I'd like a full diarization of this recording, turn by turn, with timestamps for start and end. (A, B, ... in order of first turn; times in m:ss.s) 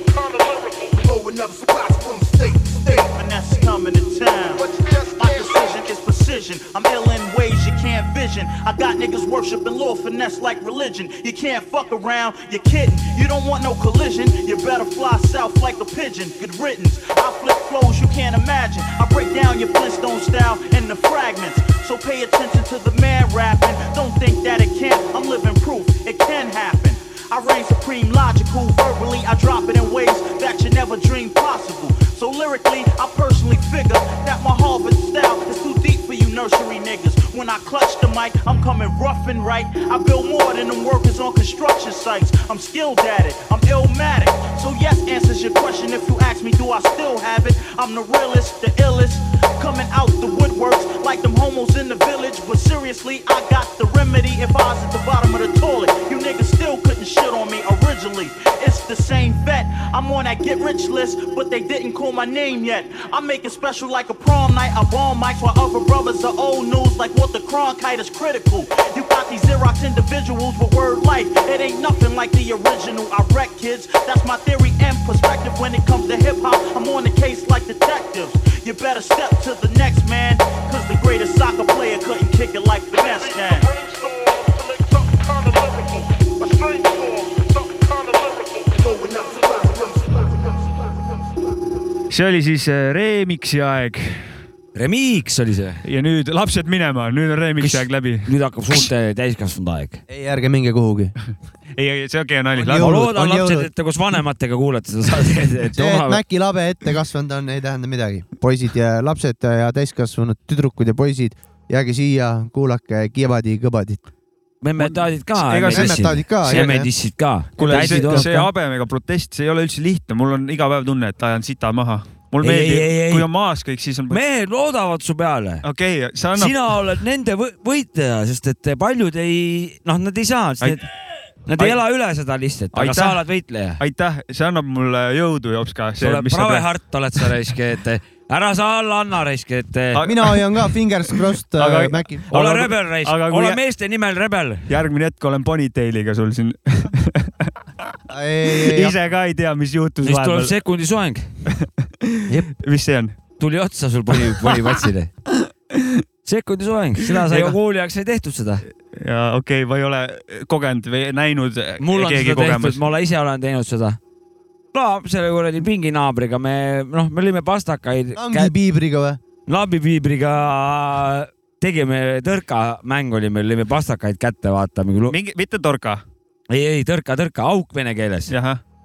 0:00.9-0:03.1 A
0:03.1-1:23.7 B
0:04.6-0:05.6 A
1:28.7-1:30.4 A
1:32.1-1:34.4 C
1:34.8-1:35.8 D
1:35.8-1:38.8 C
1:37.6-1:40.0 D
1:40.1-1:41.2 E
1:41.8-1:42.9 C
1:42.6-1:43.7 E
1:42.8-1:46.2 D
1:45.8-1:54.0 E
1:54.6-1:58.5 D
1:54.8-1:56.7 C
1:55.7-1:56.9 E
1:57.6-1:58.3 E
1:57.6-2:04.2 C
2:02.4-2:03.3 D
2:04.1-2:05.6 D
2:05.6-2:06.7 C
2:06.4-2:10.8 D
2:11.5-2:13.8 D
2:12.7-2:13.2 C
2:13.8-2:16.7 C
2:16.0-2:20.0 D
2:20.0-2:20.7 C
2:20.0-2:22.2 E
2:21.6-2:23.6 C
2:22.3-2:24.6 D
2:24.7-2:27.5 C
2:28.1-2:29.0 E
2:28.6-2:30.5 C
2:30.0-2:31.3 D
2:31.5-2:32.1 C
2:32.6-2:33.2 C
2:33.4-2:35.1 D
2:36.2-2:38.6 D
2:37.3-2:37.6 C
2:39.0-2:42.8 C
2:41.8-2:44.0 D
2:44.7-2:48.5 D
2:48.2-2:49.2 E
2:49.5-2:55.1 D
2:55.1-2:56.0 C
2:56.5-2:58.3 D
2:58.3-2:58.6 C